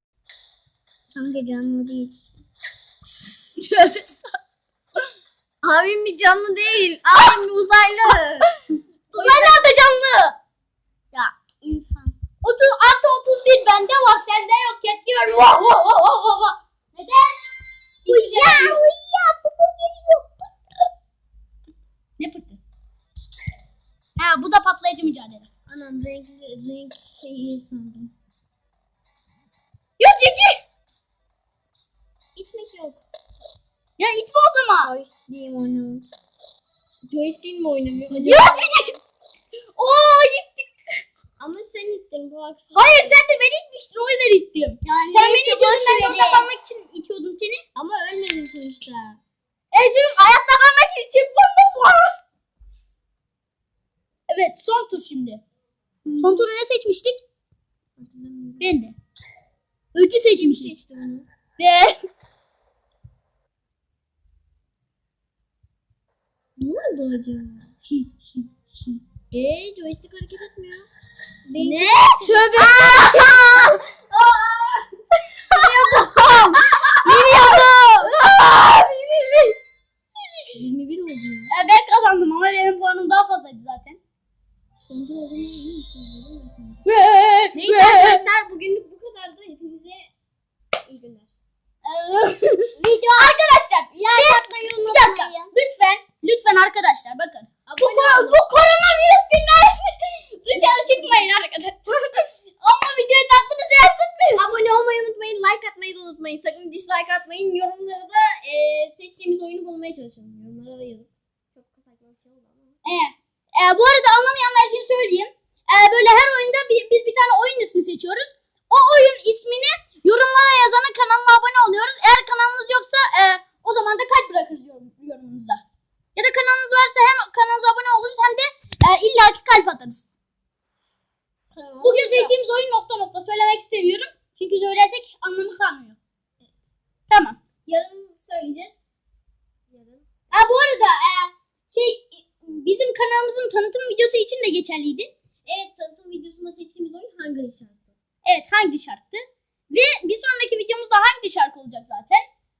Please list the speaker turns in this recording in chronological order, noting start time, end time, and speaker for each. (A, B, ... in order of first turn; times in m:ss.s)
0:01.1-0:02.2 A
0:03.6-0:04.3 B
0:05.6-0:08.5 A
0:09.1-0:10.3 B
0:09.2-0:09.6 A
0:11.1-0:12.1 C
0:12.4-0:17.4 B
0:18.0-0:18.8 B
0:18.1-0:20.2 C
0:22.2-0:22.6 B
0:24.2-0:25.5 B
0:25.7-0:28.1 A
0:30.0-0:30.6 B
0:32.3-0:33.0 A
0:34.0-0:34.9 B
0:34.8-0:36.0 A
0:37.1-0:39.0 A
0:38.1-0:38.9 B
0:39.8-0:40.7 B
0:41.4-0:43.2 A
0:42.7-0:47.6 B
0:44.8-0:46.5 C
0:47.7-0:49.2 A
0:49.7-0:52.2 B
0:54.3-0:55.4 B
0:56.0-0:56.4 A
0:56.2-0:57.2 B
0:58.0-0:58.8 A
0:58.6-0:59.0 B
0:59.9-1:00.8 B
1:00.3-1:01.3 A
1:01.6-1:02.0 B
1:06.6-1:07.8 A
1:09.3-1:10.9 A
1:11.5-1:13.2 C
1:11.6-1:14.8 A
1:12.1-1:13.7 B
1:15.5-1:18.2 A
1:15.5-1:19.5 B
1:20.5-1:21.5 A
1:21.5-1:24.0 B
1:24.9-1:26.8 A
1:26.8-1:28.2 B
1:27.5-1:30.1 A
1:30.8-1:31.4 A
1:31.8-1:39.8 B
1:32.8-1:33.4 C
1:33.9-1:35.5 C
1:37.6-1:38.5 A
1:40.4-1:44.4 B
1:40.5-1:41.2 A
1:44.3-1:52.8 A
1:52.8-2:05.6 B
2:06.2-2:10.1 B
2:11.5-2:12.4 C
2:11.8-2:16.0 B
2:17.1-2:17.4 B
2:17.6-2:18.8 A
2:19.7-2:20.0 A
2:20.3-2:25.1 B
2:25.4-2:27.9 A
2:28.2-2:32.2 B